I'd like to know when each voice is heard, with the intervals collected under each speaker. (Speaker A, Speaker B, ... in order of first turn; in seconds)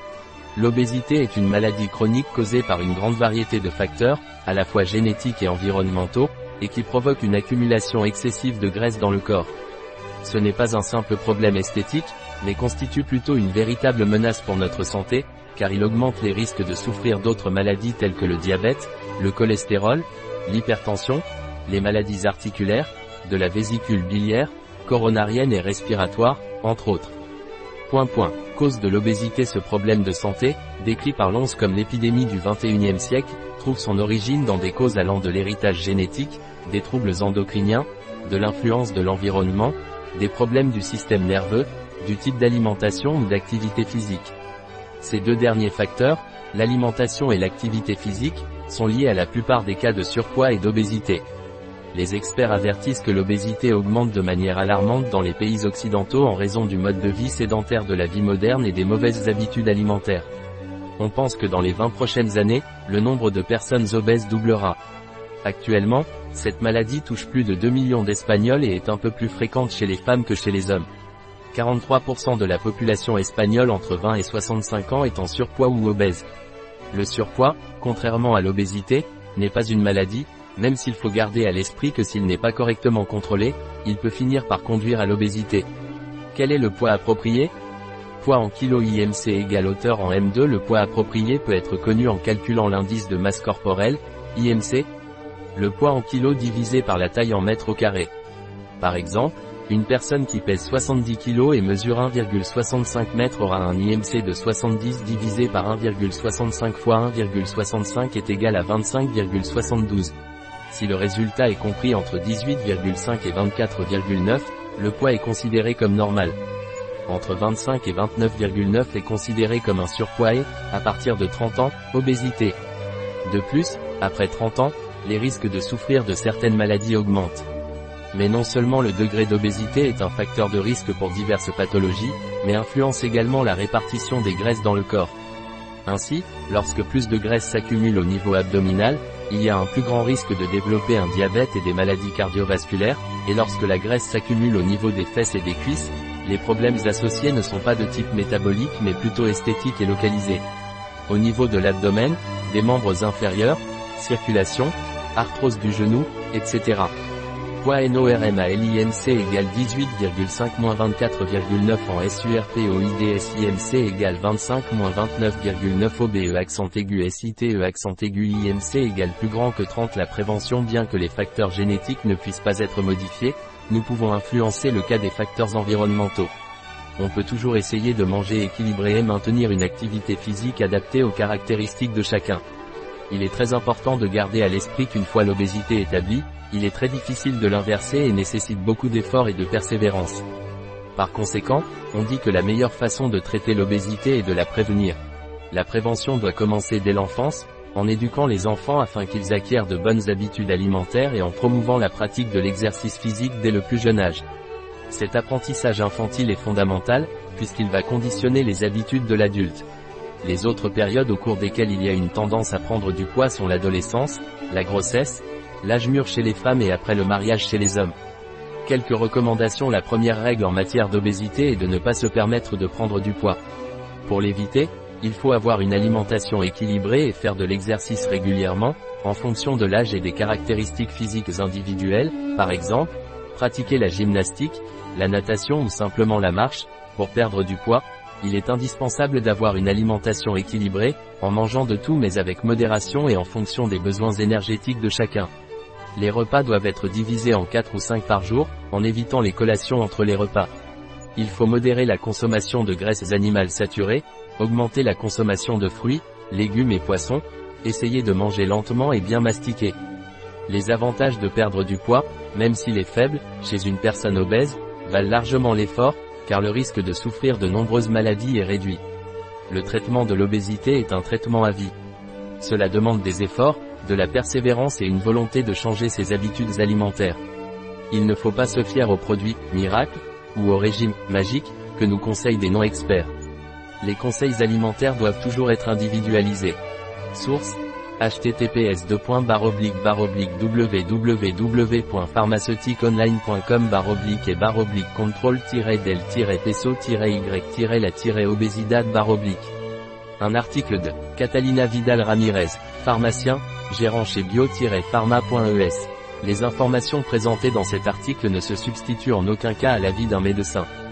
Speaker A: 0.5-9.5, 10.2-27.1, 27.9-44.3, 45.0-51.2, 51.9-60.3, 61.0-64.8, 65.4-70.9, 71.5-76.2, 76.9-85.7, 86.3-87.5, 88.2-94.9, 95.5-98.1, 98.8-110.1, 110.7-116.4, 117.1-122.6, 123.2-127.5, 128.1-135.1, 135.8-150.4, 151.1-156.9, 157.6-176.3, 177.0-182.4, 183.1-190.2, 190.9-195.0, 195.5-204.2, 204.9-209.7, 210.2-217.9, 218.6-223.4, 224.0-245.3, 245.9-250.5, 251.2-259.8, 260.5-268.8, 269.5-271.7, 272.4-277.2, 277.9-283.1, 283.8-286.6, 287.1-299.5, 300.2-310.7